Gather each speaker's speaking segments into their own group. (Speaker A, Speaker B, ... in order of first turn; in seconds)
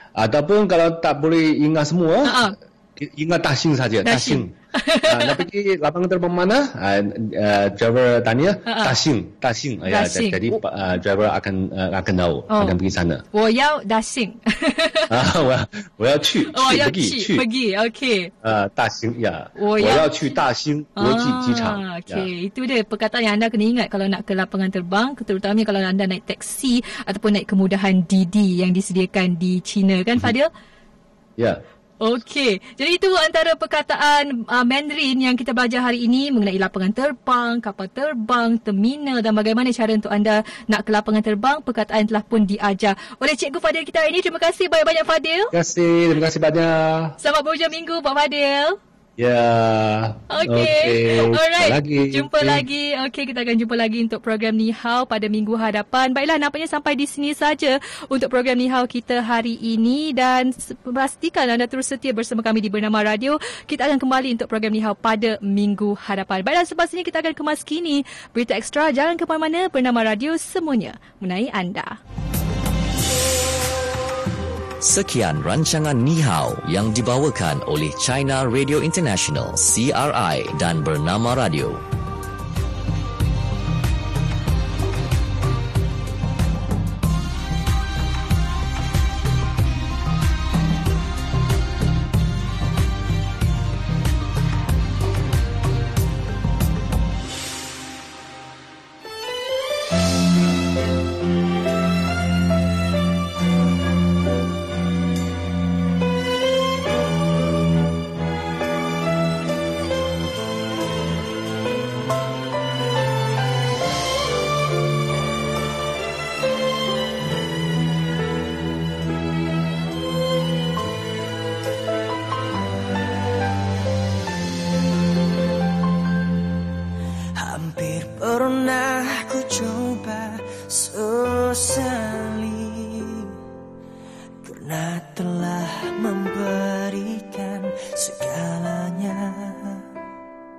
Speaker A: 0.1-13.2, 15.1-17.4, 18.4-22.3, 31.4-31.6, 45.5-47.2, 49.2-52.6
Speaker B: 2.2-2.5, 4.0-5.4, 8.7-8.9, 9.9-10.6, 12.5-12.8, 13.3-15.1, 16.5-18.3, 19.6-20.3, 21.0-30.5, 32.0-45.5, 47.2-48.8, 50.3-72.0
Speaker C: 74.8-81.8
Speaker D: 127.3-133.3, 134.4-139.8